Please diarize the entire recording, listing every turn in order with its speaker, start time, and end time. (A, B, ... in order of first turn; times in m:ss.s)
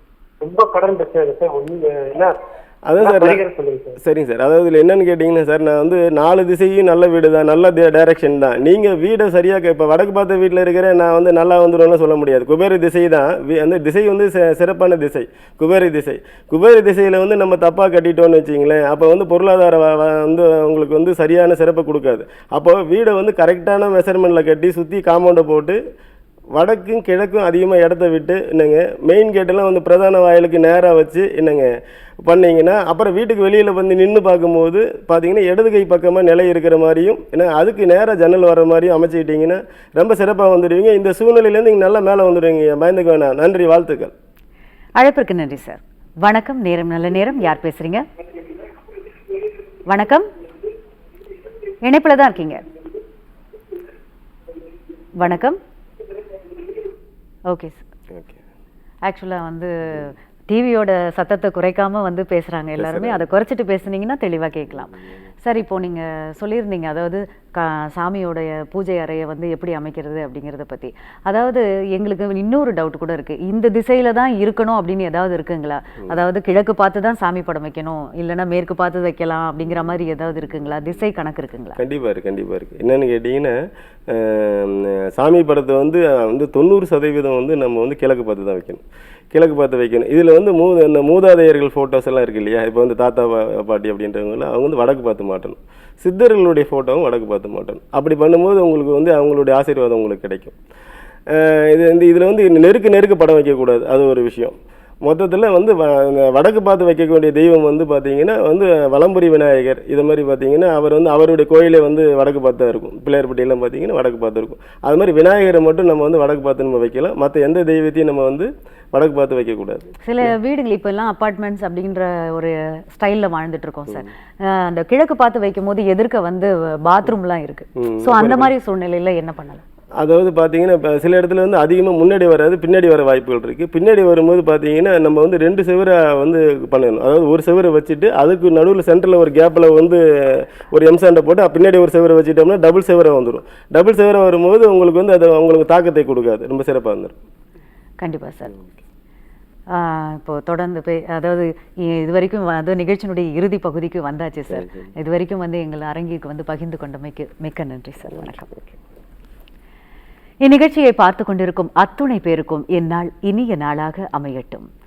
0:00.4-0:02.3 A
0:02.9-0:03.4 B
0:03.0-0:04.0 A
0:04.0-0:25.8 B
0:26.5-0:31.7 B
0:32.2-0:44.1 B
0:45.0-0:48.0 C
0:49.9-0:50.3 C
0:51.8-0:52.6 C
0:55.2-0:55.6 C
0:57.5-0:57.8 C
0:59.0-1:21.8 C
1:02.8-1:03.2 B
1:21.8-1:23.6 B
1:24.1-1:28.8 B
1:29.3-1:40.6 B
1:41.3-2:00.3 B
2:00.0-2:09.6 C
2:07.8-2:08.5 B
2:10.0-2:27.2 B
2:28.0-2:28.6 C
2:29.7-2:38.5 C
2:34.5-2:34.9 B
2:40.4-2:44.7 C